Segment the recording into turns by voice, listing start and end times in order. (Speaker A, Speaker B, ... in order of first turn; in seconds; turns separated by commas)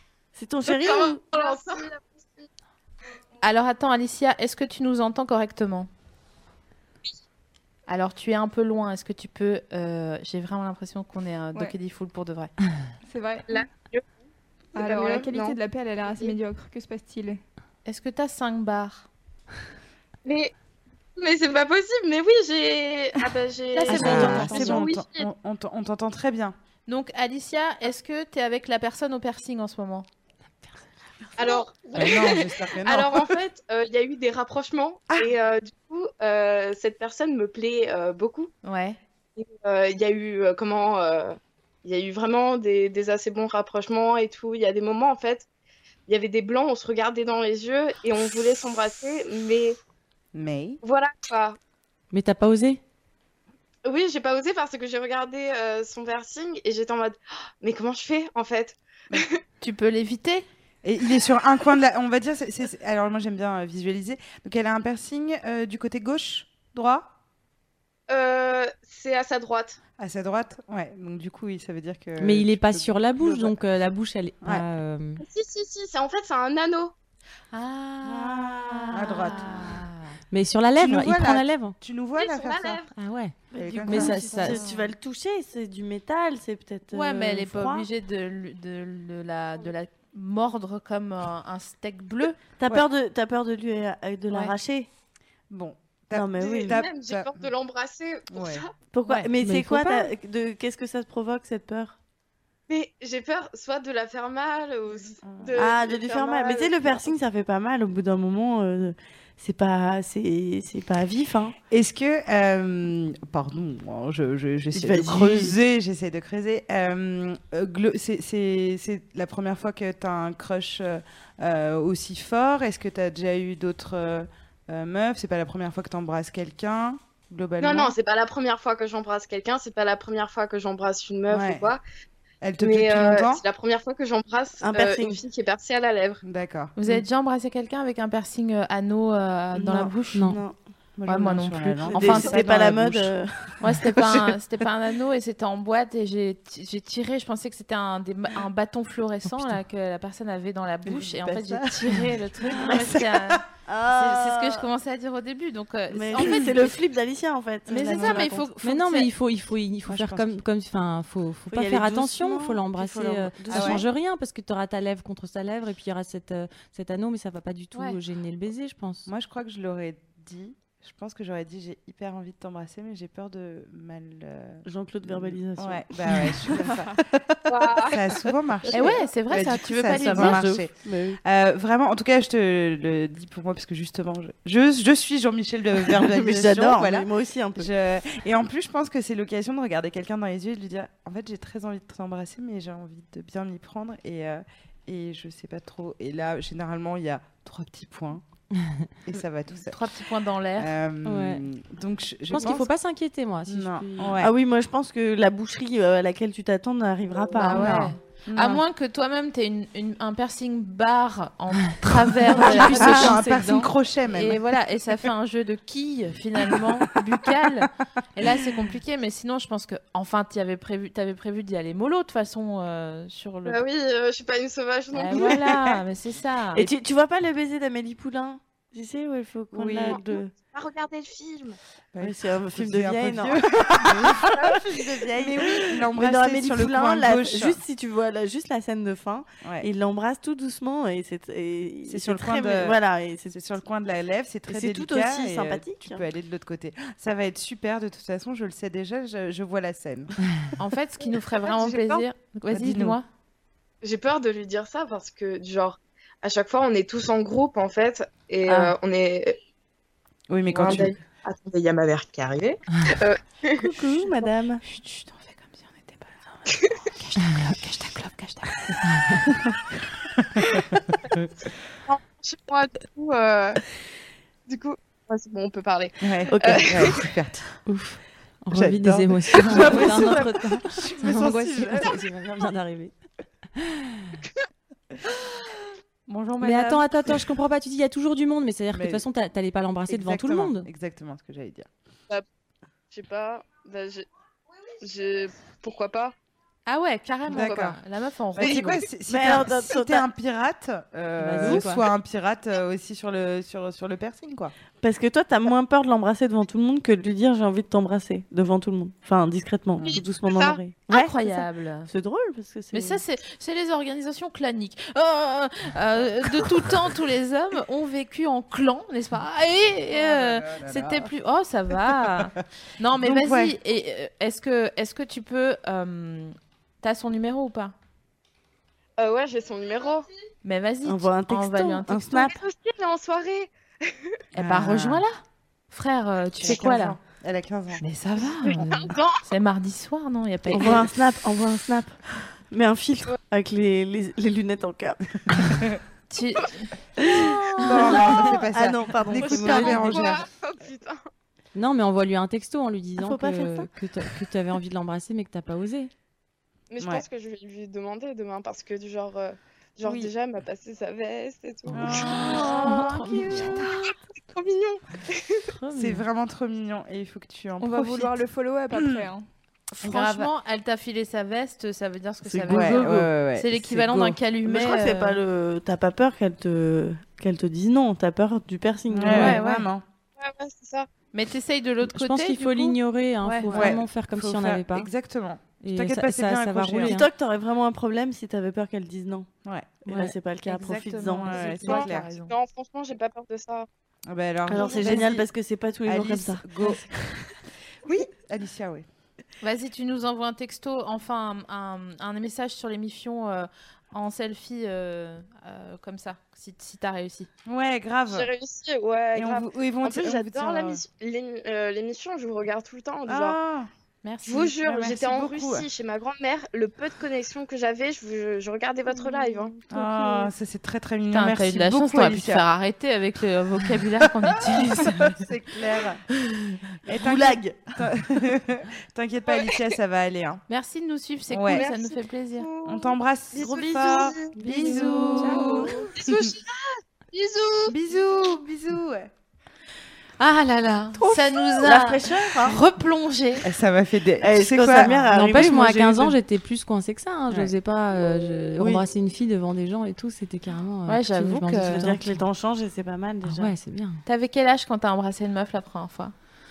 Speaker A: 0.3-1.2, Speaker B: 0.7-2.5, Speaker C: 3.4-5.9, Speaker C: 7.9-12.5, Speaker D: 13.1-13.5, Speaker B: 13.5-14.0, Speaker D: 14.7-17.4, Speaker B: 14.8-16.3, Speaker C: 17.8-19.1, Speaker B: 20.2-20.5, Speaker B: 21.2-25.3, Speaker C: 23.7-24.9, Speaker E: 23.9-26.5, Speaker C: 26.9-30.1, Speaker B: 31.4-38.5, Speaker E: 31.9-33.3, Speaker C: 38.6-39.0, Speaker B: 39.4-45.5, Speaker B: 46.1-49.8, Speaker E: 50.3-50.8, Speaker B: 50.8-51.6, Speaker F: 52.1-52.8, Speaker B: 53.8-59.4, Speaker C: 59.6-60.5, Speaker E: 60.8-67.1, Speaker B: 68.1-69.8, Speaker E: 70.0-73.5, Speaker F: 72.2-75.2, Speaker B: 75.2-76.9, Speaker C: 77.5-80.1, Speaker A: 78.0-79.8, Speaker E: 78.9-79.4, Speaker F: 80.3-81.7, Speaker E: 80.8-82.8, Speaker B: 82.2-82.9, Speaker F: 83.0-83.3, Speaker A: 83.5-87.9, Speaker E: 83.6-84.2, Speaker F: 83.9-84.6, Speaker C: 84.2-84.9, Speaker C: 86.9-92.4, Speaker A: 92.6-94.9, Speaker E: 95.5-97.4, Speaker A: 96.1-96.8, Speaker B: 96.4-98.7, Speaker E: 98.3-98.6, Speaker A: 98.9-102.0, Speaker F: 99.4-100.1, Speaker B: 102.7-107.1, Speaker E: 105.2-105.6, Speaker A: 105.5-111.5, Speaker E: 111.7-127.9, Speaker A: 114.7-115.5, Speaker B: 127.6-131.8, Speaker E: 131.3-131.7, Speaker E: 132.4-133.4, Speaker B: 132.6-136.2, Speaker A: 134.6-135.2, Speaker E: 136.2-136.7, Speaker C: 136.8-140.2, Speaker A: 139.5-140.6, Speaker F: 140.1-140.4, Speaker E: 141.0-143.1, Speaker C: 141.1-142.4, Speaker A: 141.9-143.6, Speaker C: 143.6-153.4, Speaker E: 144.0-144.3, Speaker E: 150.8-152.0, Speaker E: 152.5-153.4, Speaker A: 153.7-154.7, Speaker C: 153.9-156.8, Speaker A: 155.9-158.5, Speaker C: 157.7-159.1, Speaker E: 157.8-158.3, Speaker F: 158.6-169.1, Speaker E: 159.9-160.4, Speaker A: 161.5-163.9, Speaker E: 163.5-163.8, Speaker E: 169.1-177.0, Speaker A: 174.6-176.8, Speaker B: 177.5-178.1, Speaker E: 177.8-198.2, Speaker C: 178.7-180.4, Speaker B: 178.8-179.0, Speaker A: 179.9-181.2, Speaker A: 185.9-187.7, Speaker F: 198.6-198.9, Speaker E: 199.1-199.8, Speaker C: 199.7-200.7, Speaker E: 200.6-202.7, Speaker F: 201.0-201.4, Speaker F: 202.3-204.2, Speaker E: 203.5-204.3, Speaker A: 204.2-207.8, Speaker C: 207.3-223.6, Speaker E: 207.5-208.6, Speaker E: 212.3-214.4, Speaker A: 212.4-213.1, Speaker B: 223.4-225.4, Speaker C: 224.9-226.7, Speaker A: 226.5-230.3, Speaker E: 229.5-230.0, Speaker B: 229.7-231.6, Speaker E: 231.9-237.6, Speaker A: 232.0-243.4, Speaker E: 241.8-250.1, Speaker A: 244.5-246.0, Speaker C: 250.6-253.1, Speaker B: 251.4-252.0, Speaker E: 252.5-253.0, Speaker B: 253.8-259.4, Speaker E: 260.3-260.9, Speaker B: 260.5-263.7, Speaker A: 263.6-264.6, Speaker C: 264.6-268.5, Speaker B: 266.5-266.8, Speaker B: 271.9-273.6, Speaker B: 274.5-277.0, Speaker E: 276.0-277.4, Speaker A: 276.3-276.7, Speaker F: 277.7-282.9, Speaker E: 278.5-281.9, Speaker A: 279.6-280.0, Speaker F: 283.6-284.0, Speaker E: 286.1-287.2, Speaker F: 286.4-290.7, Speaker E: 288.7-289.0, Speaker E: 289.9-291.7, Speaker B: 292.9-294.1, Speaker B: 294.8-296.1, Speaker C: 296.6-298.8, Speaker E: 297.3-297.8, Speaker B: 297.4-297.6, Speaker E: 298.4-304.5, Speaker A: 299.1-300.0, Speaker F: 301.2-301.8, Speaker A: 304.8-313.0, Speaker B: 309.8-310.6, Speaker C: 310.9-311.9, Speaker C: 312.7-327.7, Speaker E: 319.9-321.1, Speaker E: 323.0-323.5, Speaker B: 329.0-330.1, Speaker C: 330.4-332.0, Speaker A: 330.8-332.4, Speaker B: 332.1-334.0, Speaker C: 334.3-335.2, Speaker E: 334.4-335.0, Speaker C: 335.7-337.0, Speaker E: 336.4-337.8, Speaker C: 337.8-340.9, Speaker B: 338.4-339.2, Speaker A: 340.5-345.0, Speaker C: 346.1-346.7, Speaker A: 347.0-350.0, Speaker E: 347.6-350.2, Speaker B: 349.1-351.0, Speaker F: 351.5-355.9, Speaker A: 353.0-353.7, Speaker B: 356.7-362.4, Speaker F: 361.7-363.6, Speaker E: 361.7-363.7, Speaker B: 363.6-365.5, Speaker F: 365.6-366.0, Speaker E: 365.7-368.2, Speaker D: 367.6-369.2, Speaker E: 368.7-369.0, Speaker E: 369.7-370.3, Speaker C: 369.8-375.2, Speaker A: 372.2-373.1, Speaker E: 372.5-374.1, Speaker A: 374.4-379.4, Speaker E: 378.9-379.8, Speaker C: 379.0-379.7, Speaker B: 380.2-380.9, Speaker C: 381.1-383.6, Speaker F: 381.9-384.9, Speaker E: 383.5-387.0, Speaker F: 385.6-387.1, Speaker A: 386.8-389.3, Speaker E: 389.4-389.9, Speaker A: 389.8-391.5, Speaker C: 390.4-392.3, Speaker E: 390.6-392.1, Speaker B: 391.4-393.7, Speaker E: 394.1-395.3, Speaker A: 394.5-396.9, Speaker B: 394.5-395.1, Speaker E: 395.9-396.9, Speaker E: 397.8-398.8, Speaker C: 399.4-407.3, Speaker E: 407.4-408.3, Speaker B: 408.1-413.4, Speaker E: 409.1-410.8, Speaker E: 413.1-413.7, Speaker C: 414.0-414.6, Speaker B: 414.2-419.6, Speaker E: 414.6-415.7, Speaker E: 419.7-422.4, Speaker C: 421.1-425.1, Speaker E: 424.4-426.0, Speaker E: 426.8-430.4, Speaker A: 426.9-427.7, Speaker B: 429.4-429.6, Speaker C: 430.5-432.5, Speaker E: 431.3-431.7, Speaker B: 431.5-437.8, Speaker E: 432.6-436.3, Speaker A: 433.4-435.7, Speaker C: 434.4-435.7, Speaker E: 437.7-439.1, Speaker C: 440.2-443.4, Speaker A: 441.6-442.6, Speaker E: 443.4-445.1, Speaker A: 444.2-446.1, Speaker F: 445.1-452.2, Speaker A: 448.6-448.8, Speaker C: 450.9-451.9, Speaker A: 451.6-453.5, Speaker F: 453.2-454.0, Speaker C: 454.0-456.1